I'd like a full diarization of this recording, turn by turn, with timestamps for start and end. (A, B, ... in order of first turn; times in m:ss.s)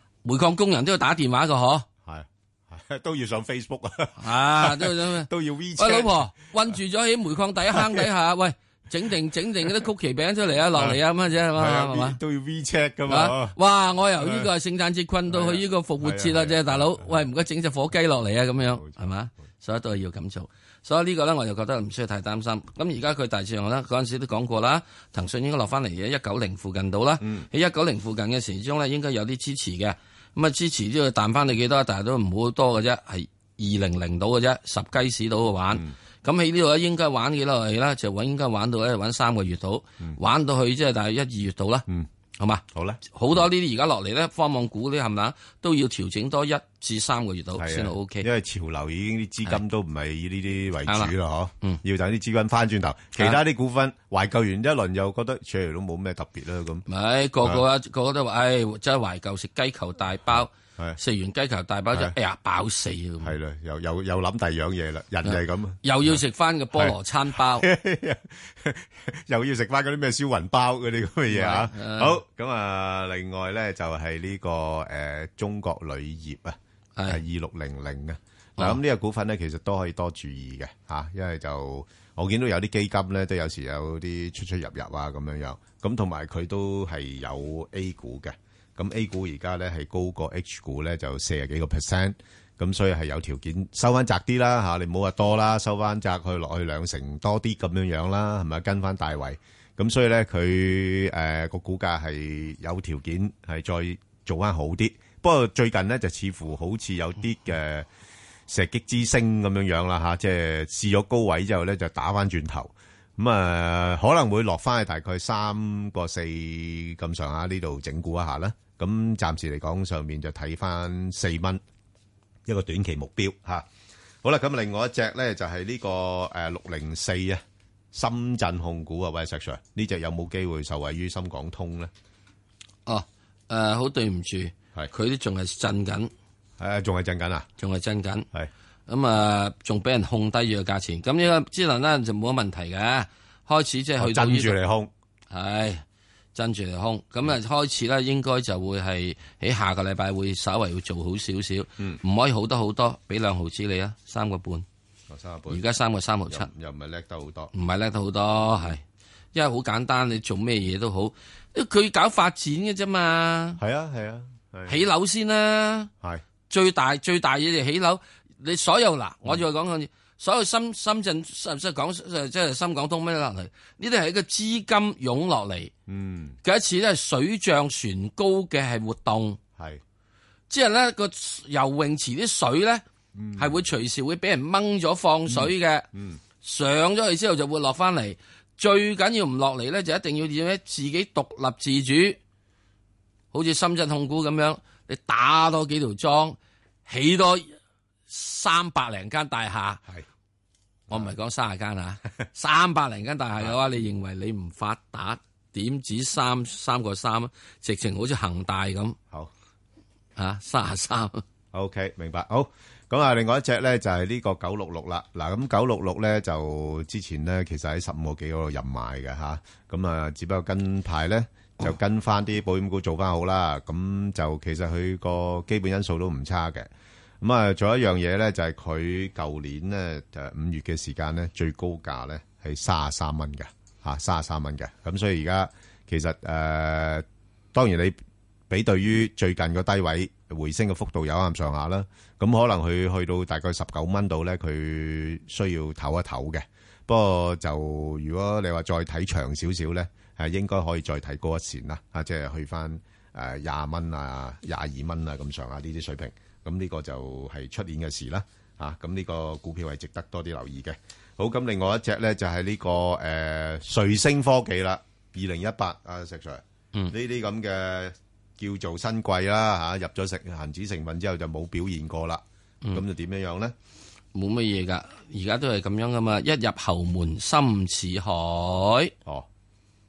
0:00.2-0:01.9 A
0:02.0-0:06.7 B
0:04.2-0:12.2 A
0:07.7-0:08.1 B
0:10.7-0:11.0 B
0:11.5-0:13.6 B
0:13.1-0:41.8 A
0:14.2-0:14.5 B
0:15.3-0:17.3 B
0:18.7-0:19.1 B
0:27.2-0:27.5 B
0:42.4-0:48.3 A
0:42.7-0:43.4 B
0:47.6-0:56.8 B
0:50.8-0:51.8 A
0:56.9-1:03.3 A
1:00.3-1:01.0 B
1:03.2-1:06.2 B
1:05.2-1:07.7 A
1:06.7-1:47.9 B
1:11.3-1:12.2 A
1:48.5-2:01.6 B
2:02.4-2:03.6 B
2:04.2-2:07.4 B
2:07.9-2:11.9 B
2:12.8-2:16.1 A
2:16.6-2:17.5 B
2:17.6-2:18.3 A
2:18.9-2:24.6 A
2:24.0-2:24.9 B
2:25.3-2:25.8 A
2:26.3-2:34.6 A
2:35.1-2:35.6 B
2:35.5-2:36.5 A
2:36.3-2:37.5 B
2:37.5-2:38.8 A
2:39.3-2:43.6 A
2:43.6-2:44.8 B
2:44.7-2:45.9 A
2:46.5-2:55.7 A
2:55.9-2:56.4 B
2:56.4-2:59.4 A
3:00.5-3:02.8 A
3:03.1-3:03.6 B
3:03.4-3:05.9 A
3:05.3-3:06.2 B
3:06.4-3:12.2 A
3:13.3-3:17.5 A
3:18.1-3:19.8 A
3:20.9-3:29.0 A
3:30.2-3:31.2 A
3:31.5-3:46.7 B
3:47.2-4:33.5 B
4:34.1-4:38.9 A